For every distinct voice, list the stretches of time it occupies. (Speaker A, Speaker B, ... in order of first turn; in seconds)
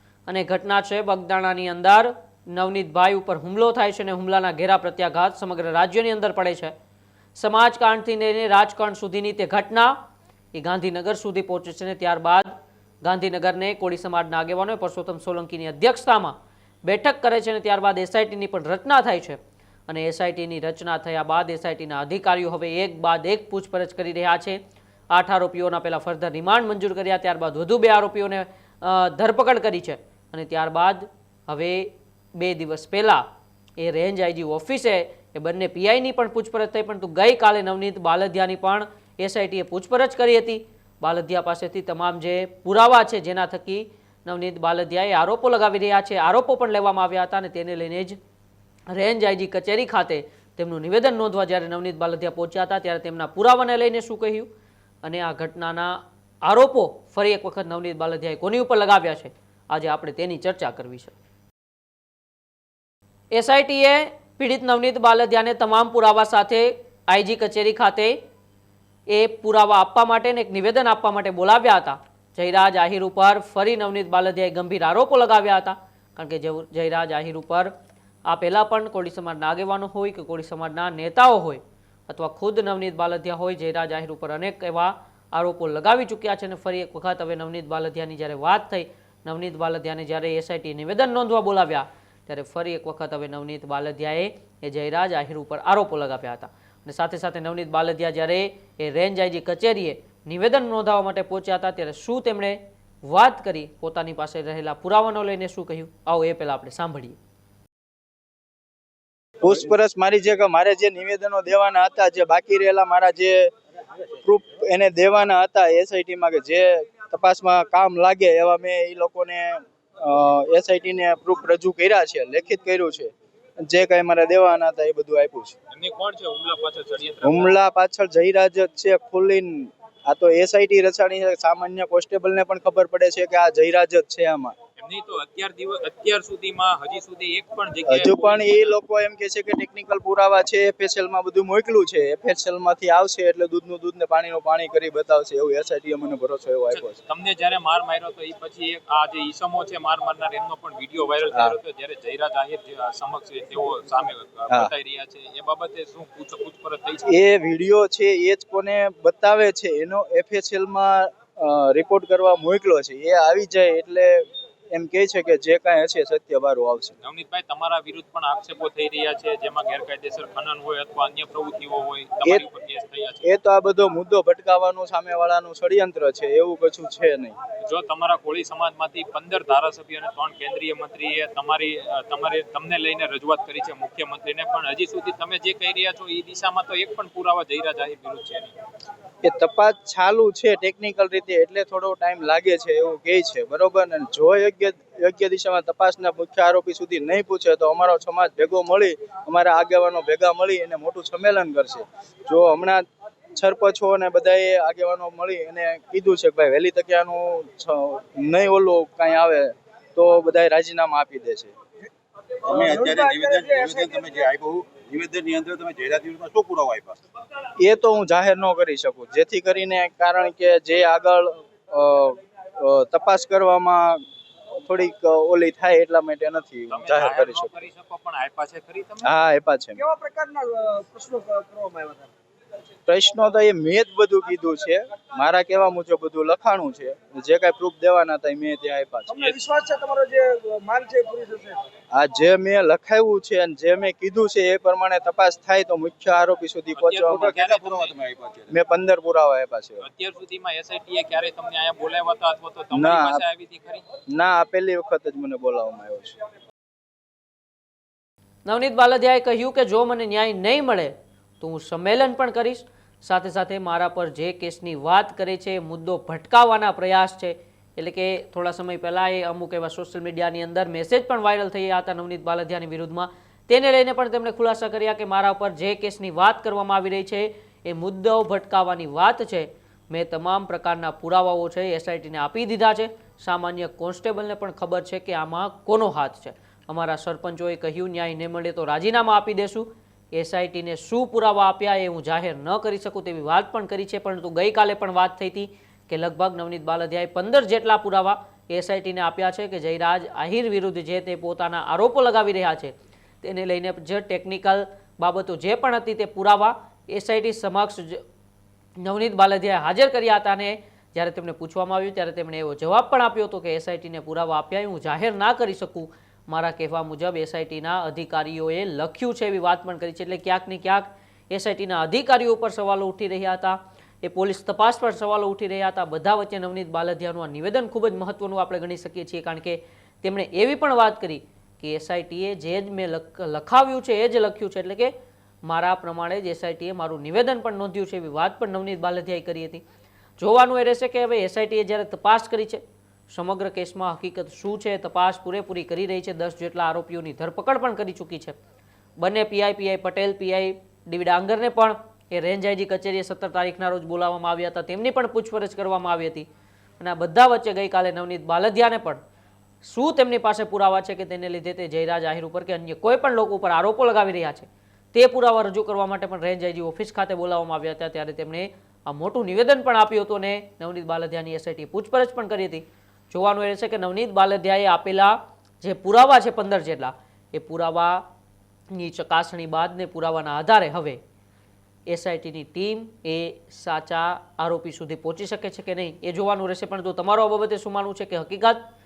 Speaker A: 0.3-6.7, 7.3-9.9, 10.5-12.5, 13.0-24.6, 25.1-33.2, 33.8-48.2, 48.9-54.5, 55.0-61.1, 63.3-68.2, 69.1-77.7, 78.2-107.2, 258.4-308.0, 308.8-334.9, 335.4-339.6, 340.2-348.4, 349.0-356.2, 356.8-359.0, 359.6-378.0, 378.7-381.0, 381.9-388.6
Speaker B: 109.4-113.5, 114.2-125.5, 127.2-134.5, 137.9-147.0, 157.1-166.9, 173.2-177.3, 189.2-202.8, 203.3-211.5, 217.6-224.0, 224.6-227.5, 229.0-229.8, 232.9-239.1, 241.9-247.4, 248.5-249.8, 252.7-253.2, 254.1-256.1
Speaker C: 125.7-127.5, 134.8-138.7, 146.7-157.1, 167.0-173.3, 177.6-188.5, 226.7-229.1, 239.2-239.4, 246.8-248.0, 249.8-253.8
Speaker D: 212.5-216.9, 247.2-248.5
Speaker E: 212.5-213.9, 229.8-232.1, 239.2-241.6